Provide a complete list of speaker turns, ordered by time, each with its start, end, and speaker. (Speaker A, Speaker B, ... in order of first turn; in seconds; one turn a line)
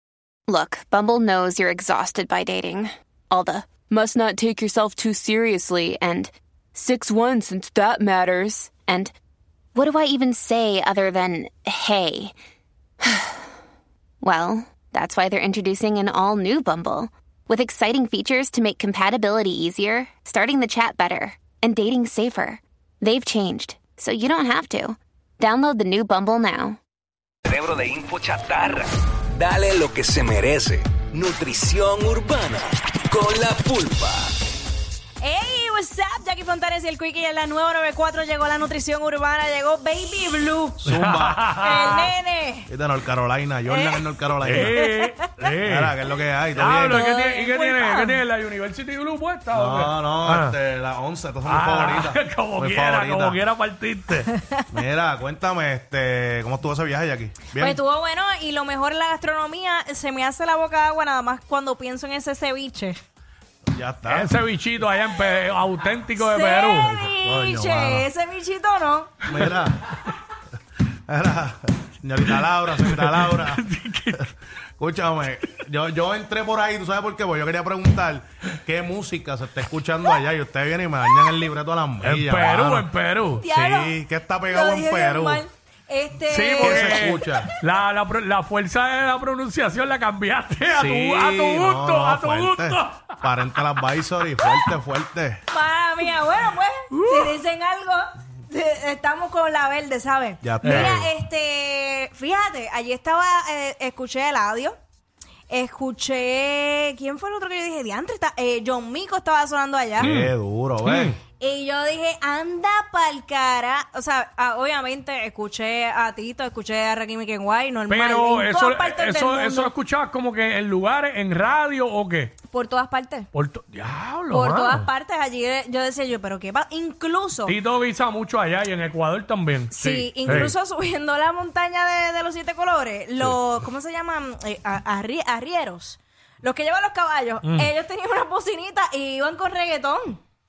Speaker A: 0.5-9.1
Speaker A: 9.7-12.3
Speaker A: 13.1-13.3
Speaker A: 14.2-26.8
Speaker B: 27.4-34.3
Speaker C: 35.2-40.8
Speaker D: 40.8-41.5
Speaker E: 40.9-42.1
Speaker C: 41.6-42.7
Speaker D: 42.7-44.7
Speaker C: 43.7-45.3
Speaker E: 44.4-45.9
Speaker D: 45.6-47.0
Speaker E: 46.5-50.5
Speaker C: 46.9-48.2
Speaker D: 49.5-53.4
Speaker E: 51.4-54.3
Speaker C: 54.4-54.6
Speaker D: 54.7-57.8
Speaker C: 57.6-63.0
Speaker D: 63.7-64.3
Speaker E: 64.1-66.9
Speaker C: 66.2-69.2
Speaker D: 66.8-68.1
Speaker D: 69.2-69.9
Speaker D: 71.1-73.6
Speaker E: 72.8-74.3
Speaker D: 74.8-82.9
Speaker E: 82.0-83.8
Speaker C: 83.4-83.9
Speaker D: 83.7-85.4
Speaker C: 84.5-87.4
Speaker E: 86.3-93.8
Speaker D: 86.6-87.5
Speaker D: 90.7-95.4
Speaker C: 95.5-104.8
Speaker E: 96.9-97.4
Speaker D: 100.4-100.9
Speaker E: 100.6-101.1
Speaker C: 105.5-110.1
Speaker D: 110.0-111.2
Speaker E: 110.0-110.3
Speaker E: 110.8-111.2
Speaker C: 111.3-119.7
Speaker E: 117.9-122.3
Speaker C: 122.5-123.3
Speaker E: 123.3-124.9
Speaker C: 124.3-127.5
Speaker E: 127.5-130.5
Speaker C: 129.7-140.2
Speaker D: 130.2-130.5
Speaker E: 137.4-137.7